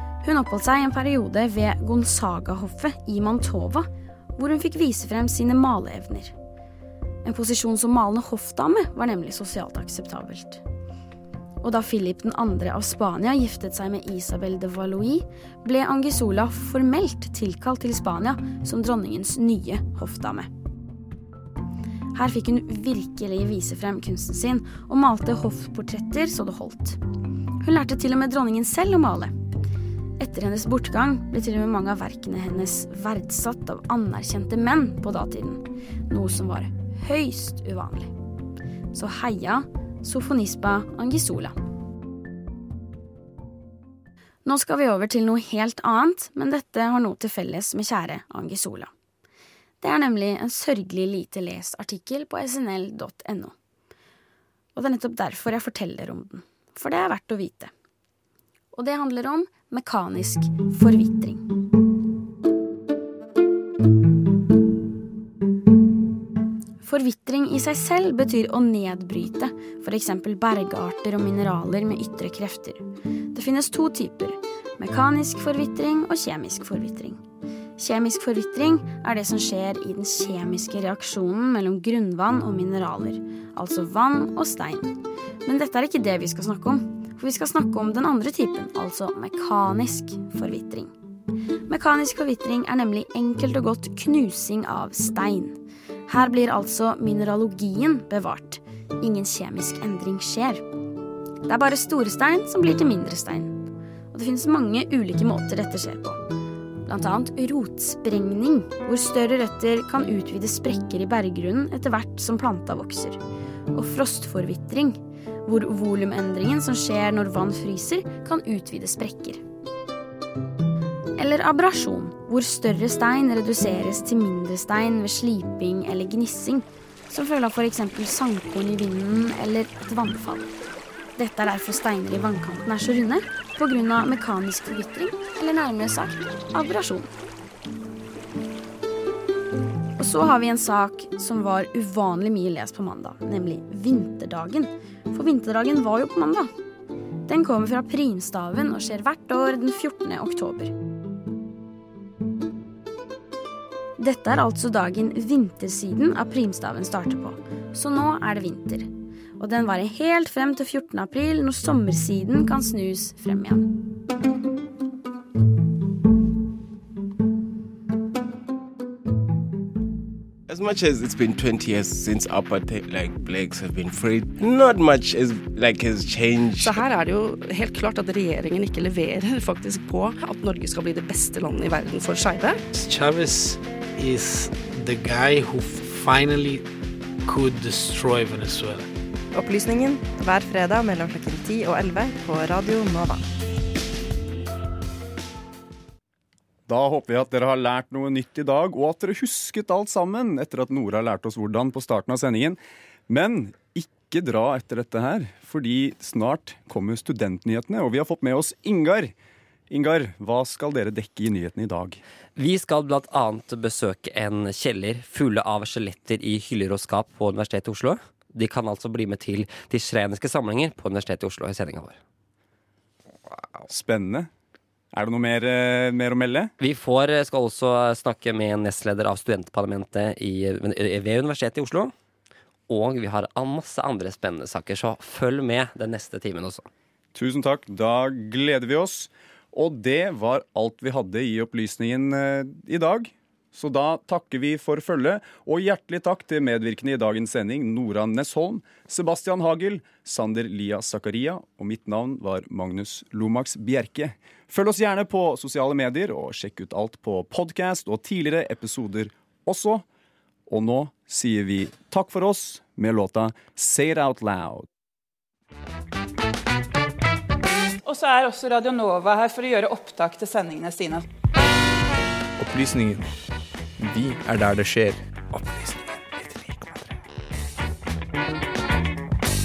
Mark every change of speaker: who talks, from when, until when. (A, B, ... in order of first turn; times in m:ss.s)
0:00.2-0:06.4 A
0:07.2-0:10.6 A
0:11.6-0:20.5 A
0:22.1-0:27.0 A
0:27.6-0:29.4 A
0:30.2-0:38.1 A
0:38.9-0:41.6 A
0:44.4-0:48.9 A
0:49.8-0:53.6 A
0:54.8-0:57.7 A
0:58.7-1:01.4 A
1:06.8-1:17.2 A
1:17.8-1:30.9 A
1:31.7-1:40.6 A
1:41.5-1:43.6 A
1:44.1-1:46.2 A
1:46.9-1:53.2 A
1:53.7-1:59.4 A
2:01.2-2:10.5 A
2:11.2-2:17.1 A
2:20.0-2:26.5 A
2:27.3-2:30.7 A
2:34.0-2:43.7 A
2:50.5-2:56.8 B
2:56.6-3:02.6 C
3:02.7-3:06.7 D
3:07.2-3:08.9 D
3:09.3-3:13.2 E
3:16.7-3:22.6 F
3:23.1-3:29.1 F
3:29.7-3:32.0 F
3:32.4-3:42.0 G
3:43.7-3:44.3 F
3:44.9-3:46.5 F
3:46.6-3:51.9 G
3:52.7-3:56.7 G
3:57.1-4:19.8 F
4:20.5-4:24.7 F
4:27.8-4:31.0 H
4:32.4-4:33.1 I
4:33.8-4:35.6 I
4:36.2-4:36.7 I